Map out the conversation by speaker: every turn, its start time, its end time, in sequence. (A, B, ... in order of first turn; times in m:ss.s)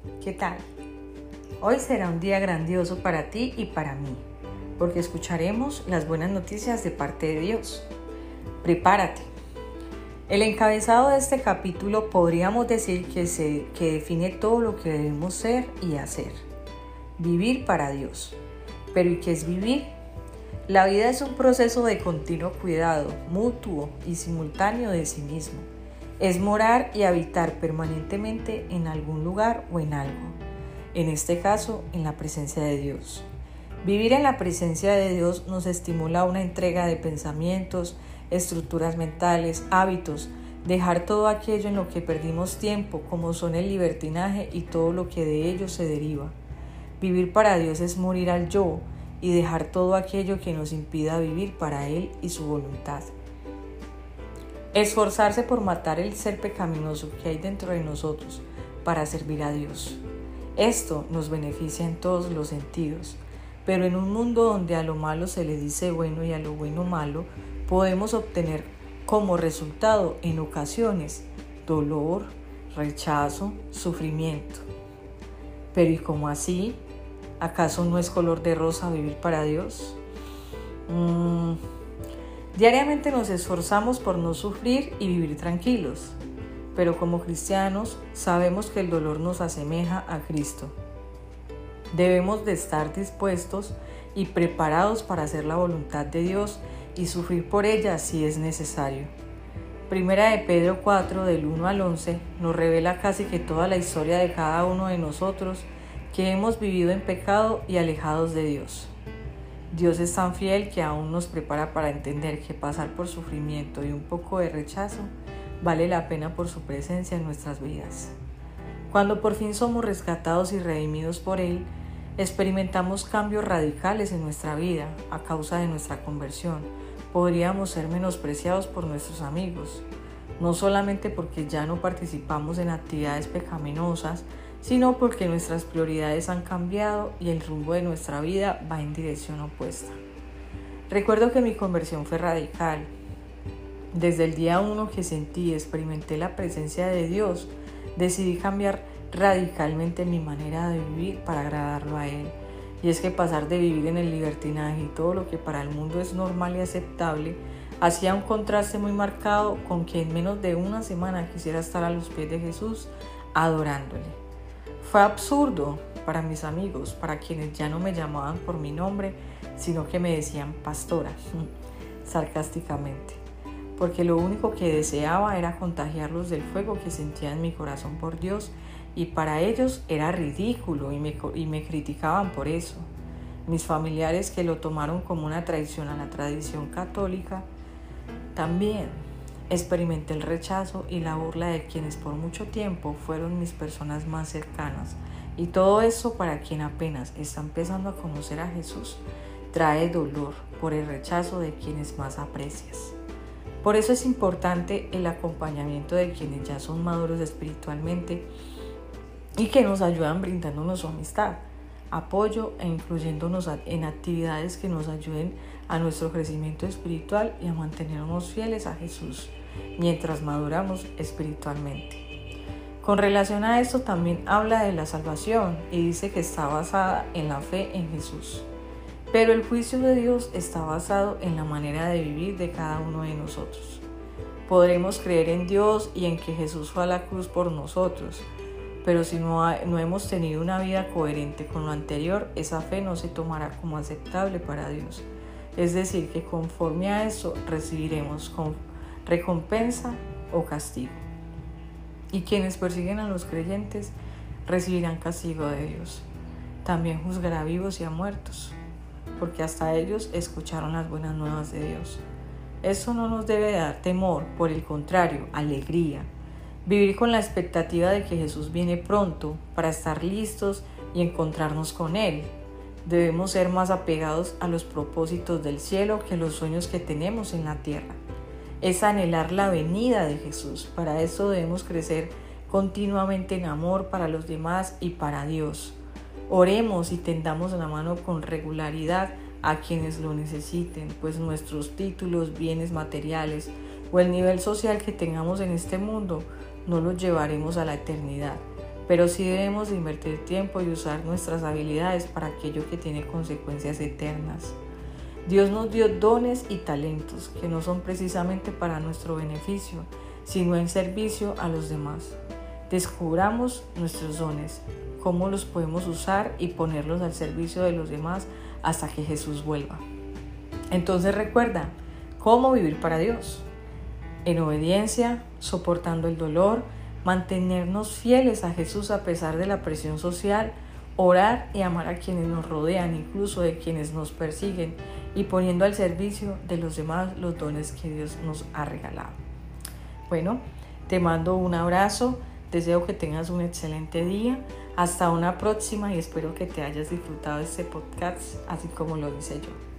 0:00.2-0:00.6 A
0:01.6-0:04.2 A
0:04.8-0:07.9 A
0:08.6-0:09.3 A
0:10.3-0:16.4 A
0:17.2-0:18.4 A
0:18.9-0:19.9 A
0:20.7-0:25.7 A
0:26.2-0:30.4 A
0:30.9-0:33.3 A
0:33.8-0:46.3 A
0:47.0-0:53.1 A
0:54.7-1:00.0 A
1:00.6-1:14.7 A
1:15.7-1:16.8 A
1:17.4-1:20.0 A
1:20.9-1:21.6 A
1:22.5-1:26.2 A
1:26.8-1:30.7 A
1:31.9-1:39.1 A
1:39.9-1:48.9 A
1:49.7-1:58.2 A
1:58.9-2:09.8 A
2:10.4-2:20.0 A
2:20.9-2:22.9 A
2:23.9-2:44.2 A
2:44.8-2:51.5 A
2:52.0-2:53.2 A
2:53.8-3:02.9 A
3:03.5-3:07.5 A
3:08.3-3:23.0 A
3:23.6-3:28.3 A
3:29.4-3:42.0 A
3:42.8-3:48.5 A
3:49.1-3:53.8 A
3:54.5-3:58.3 A
3:58.8-4:11.0 A
4:12.1-4:14.0 A
4:14.5-4:16.1 A
4:16.6-4:18.6 A
4:19.2-4:22.0 A
4:22.6-4:26.1 A
4:26.6-4:32.3 A
4:32.8-4:38.0 A
4:38.6-5:04.6 A
5:05.2-5:12.2 A
5:12.7-5:19.8 A
5:20.7-5:23.5 A
5:24.2-5:39.2 A
5:40.1-5:49.6 A